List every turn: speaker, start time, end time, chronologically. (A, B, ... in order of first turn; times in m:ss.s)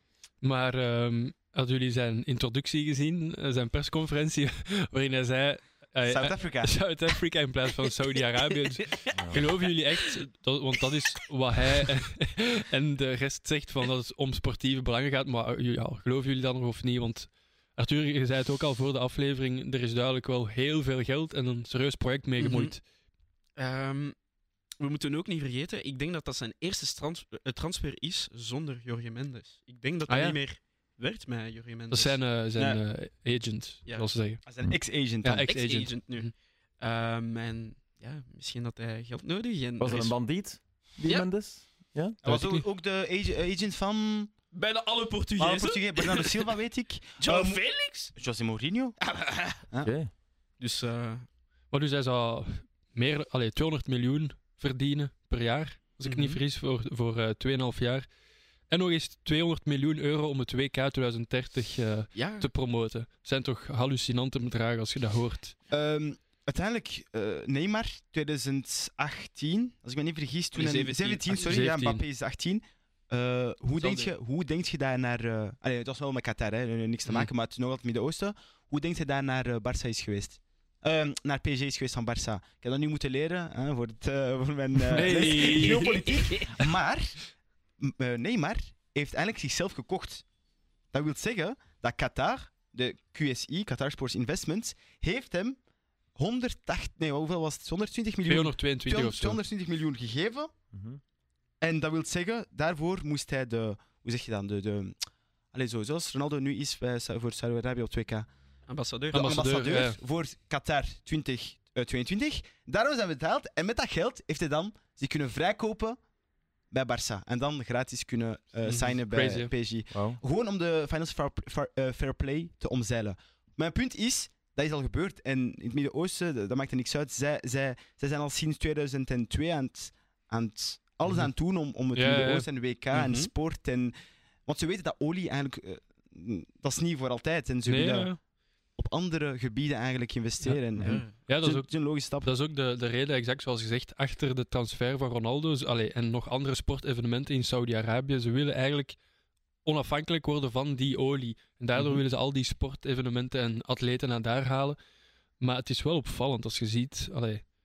0:00.4-0:22.8 A
0:06.0-0:06.8 B
0:08.9-0:09.4 C
0:09.1-0:09.5 D
0:22.4-0:22.7 C
0:23.6-0:24.2 C
0:24.8-0:32.2 C
0:30.1-0:30.4 A
0:31.9-0:34.4 A
0:33.8-0:34.1 C
0:34.4-0:35.5 B
0:35.2-0:36.3 A
0:35.4-0:40.2 C
0:39.8-0:42.2 D
0:41.0-0:41.3 C
0:42.2-0:44.3 B
0:42.2-0:42.6 A
0:44.5-0:46.5 C
0:45.4-0:47.6 B
0:47.2-0:48.1 C
0:48.1-0:49.0 B
0:49.0-0:49.6 C
0:49.8-0:50.1 D
0:50.6-0:51.2 C
0:51.7-0:58.1 A
0:56.0-0:56.4 C
0:58.7-1:05.6 A
1:02.1-1:02.4 C
1:05.7-1:27.2 B
1:10.5-1:11.6 C
1:11.3-1:12.0 A
1:13.8-1:14.1 C
1:17.0-1:17.3 C
1:24.9-1:26.0 A
1:25.3-1:26.6 C
1:27.8-1:30.2 B
1:30.9-1:35.6 B
1:36.1-1:40.5 B
1:38.2-1:39.4 A
1:40.7-1:41.0 D
1:41.6-1:44.9 B
1:45.5-1:48.3 B
1:48.7-1:49.4 C
1:49.1-1:56.0 B
1:49.1-1:50.0 A
1:56.7-2:13.9 B
1:58.6-1:59.0 C
1:59.1-1:59.5 A
1:59.9-2:00.2 D
2:11.9-2:12.5 A
2:12.9-2:13.3 C
2:14.4-2:18.1 B
2:17.6-2:18.2 A
2:18.8-2:22.3 B
2:20.4-2:29.0 A
2:20.8-2:21.1 C
2:29.6-2:34.8 A
2:31.8-2:32.0 C
2:35.4-2:37.4 A